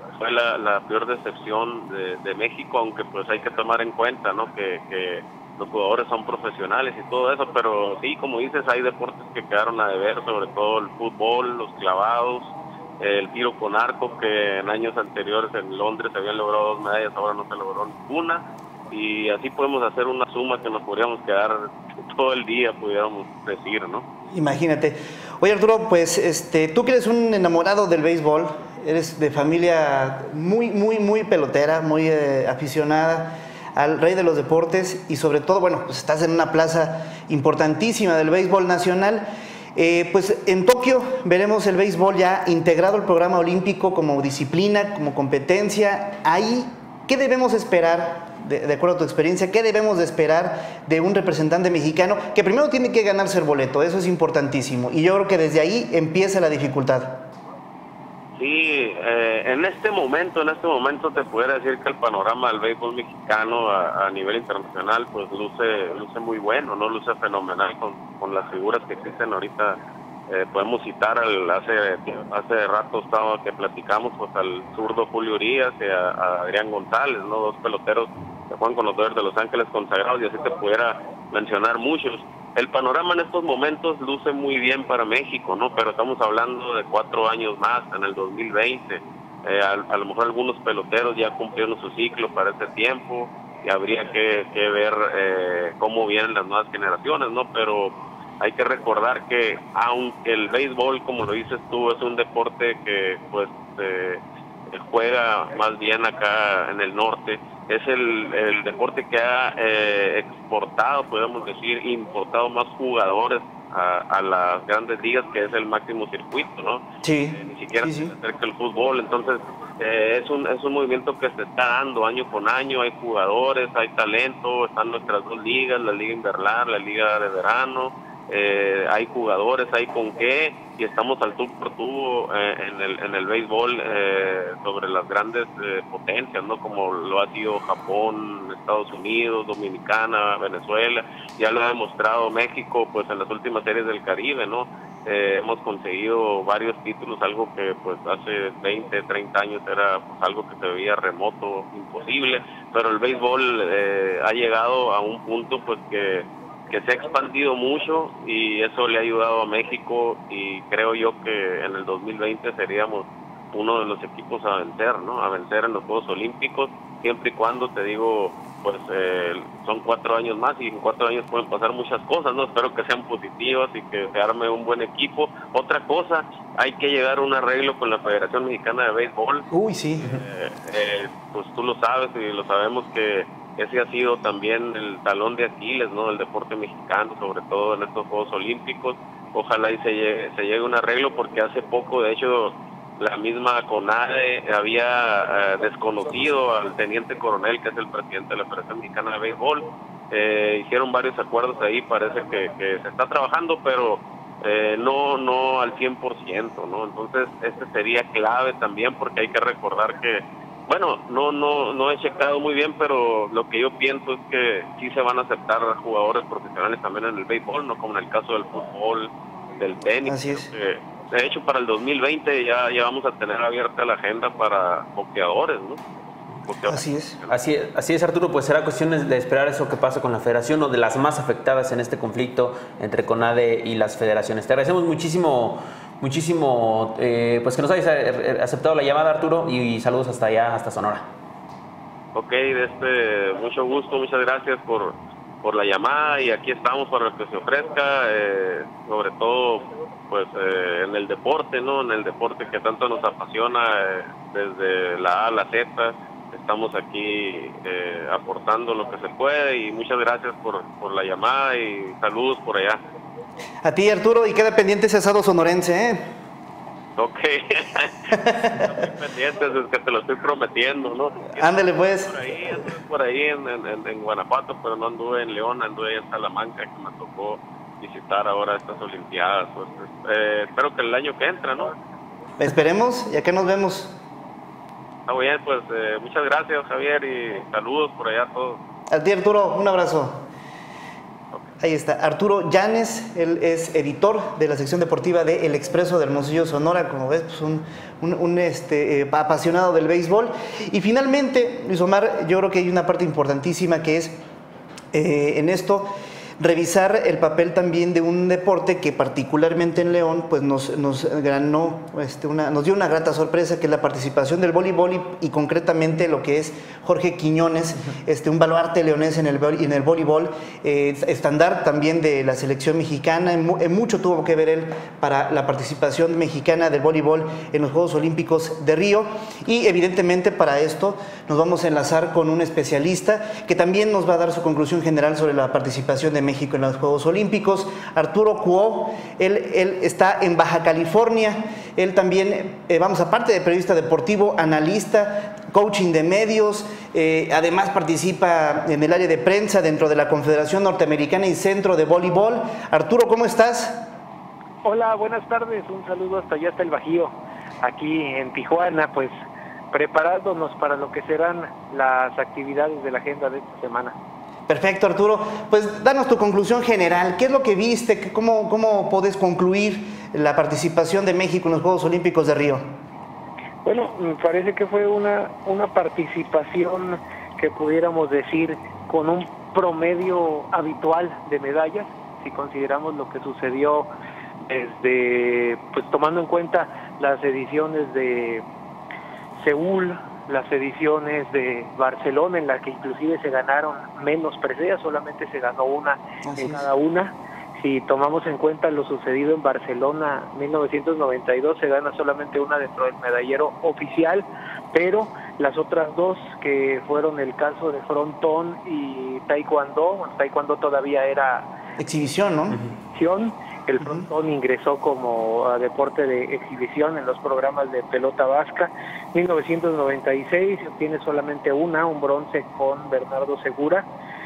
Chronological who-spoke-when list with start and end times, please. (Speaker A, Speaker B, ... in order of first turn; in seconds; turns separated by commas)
Speaker A: 0.2-24.1, Speaker B: 24.3-57.3, Speaker A: 58.4-69.8, Speaker A: 70.3-225.8, Speaker B: 117.0-118.1, Speaker B: 179.5-180.1, Speaker B: 220.1-220.5, Speaker A: 226.5-227.4, Speaker B: 226.7-227.2, Speaker C: 227.3-241.1, Speaker A: 242.2-262.8, Speaker B: 263.6-266.1, Speaker A: 267.0-281.7, Speaker B: 271.4-272.1, Speaker B: 282.4-284.0, Speaker A: 285.1-288.6, Speaker B: 288.9-290.2, Speaker B: 291.6-304.2, Speaker B: 304.9-353.9, Speaker D: 354.6-359.1, Speaker D: 359.7-364.0, Speaker B: 364.5-372.7, Speaker D: 373.6-383.9, Speaker D: 384.4-388.4, Speaker D: 389.4-411.5, Speaker B: 396.3-396.6, Speaker B: 411.8-412.6, Speaker D: 412.9-423.9